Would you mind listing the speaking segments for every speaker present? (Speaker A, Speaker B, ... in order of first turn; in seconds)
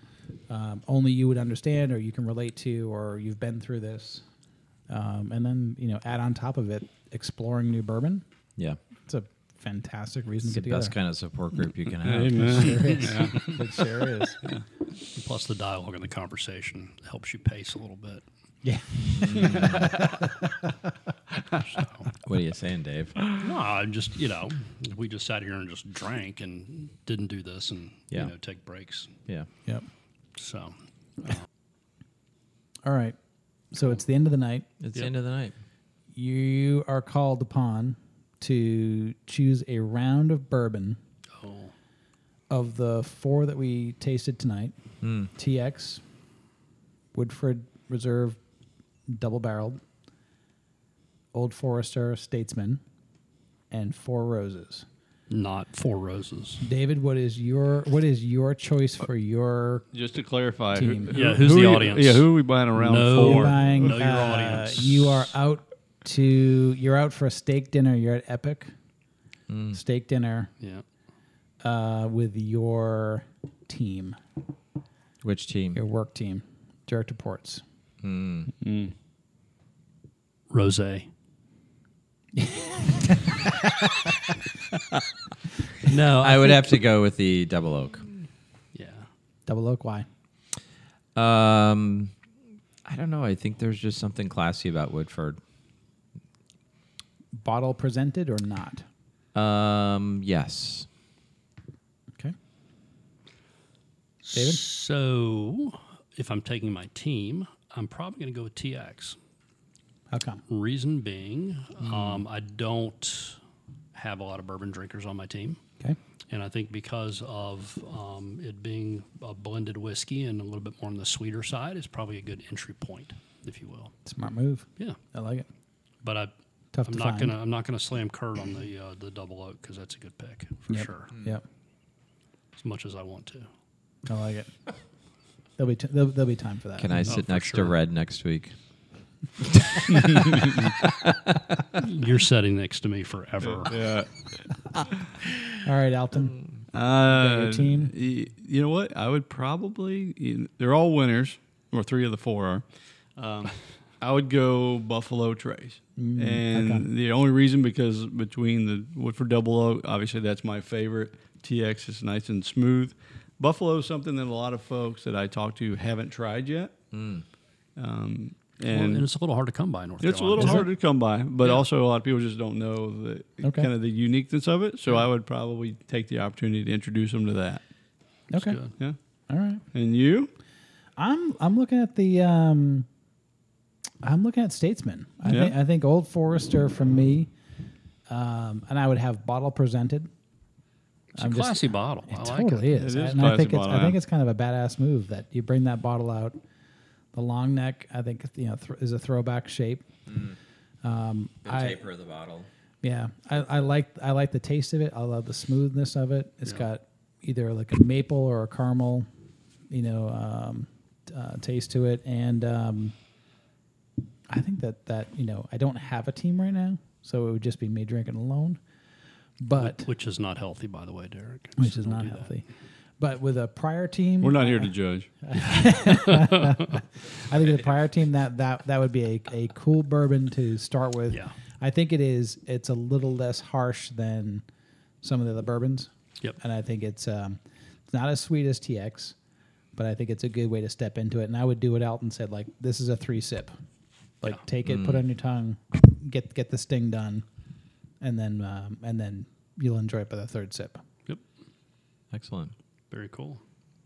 Speaker A: 0.5-4.2, 4.9-8.2, 9.1-10.9, 12.4-14.4, 18.6-20.7, 32.8-33.2, 33.7-34.7, 36.1-41.0, 42.5-44.8, 45.3-46.0, 47.1-48.4, 49.1-49.8, 51.3-52.8, 53.7-54.9, 56.6-59.9, 60.7-61.1, 63.1-68.7, 69.7-70.5, 71.6-74.2, 75.7-77.6, 82.3-84.1, 89.5-90.0, 97.3-98.8, 104.3-104.6, 110.1-110.4, 124.0-125.5, 126.7-127.3, 130.7-131.4, 134.0-134.5, 135.6-137.2, 145.6-146.3, 147.1-147.9, 156.0-156.9, 170.4-170.7, 173.4-173.7, 178.3-178.6, 179.3-179.6, 181.0-182.9, 184.0-187.3, 188.1-190.1, 191.2-196.4, 197.1-199.8, 200.8-201.8, 202.8-209.1, 209.7-212.9, 214.3-218.6, 219.4-219.9, 221.6-222.4, 223.0-224.7, 225.2-234.4, 235.0-239.2, 239.7-243.6, 244.2-247.2, 248.0-250.8
Speaker B: 10.4-12.9, 19.1-20.0, 22.2-23.2, 34.8-35.5, 45.0-45.3, 69.5-69.8, 75.2-75.8, 78.0-78.5, 85.9-88.0, 91.1-92.1, 92.8-95.4, 99.3-100.9, 136.8-138.5, 139.5-141.7, 166.9-167.2, 200.1-200.3, 201.4-202.5, 244.6-245.0, 252.1-252.5
Speaker C: 12.0-13.6, 59.9-63.7, 78.6-78.9, 143.7-144.1, 146.7-152.6, 153.2-166.7, 167.8-169.1, 170.0-177.6, 179.7-180.3, 185.3-185.5, 192.8-194.0, 224.2-225.1
Speaker D: 15.1-18.2, 21.6-22.1, 23.3-29.1, 30.3-31.4, 41.3-41.7, 55.3-56.6, 61.1-65.1, 70.6-70.8, 80.5-81.1, 85.8-86.8, 88.7-89.1, 104.2-109.2, 110.5-113.4, 113.9-115.6, 116.3-123.9, 126.0-126.3, 126.8-131.1, 132.6-133.5, 137.1-137.8, 141.8-143.8, 168.6-170.7, 178.3-178.7, 191.1-192.8, 219.6-222.3, 225.3-226.8, 231.1-231.3, 252.9-253.4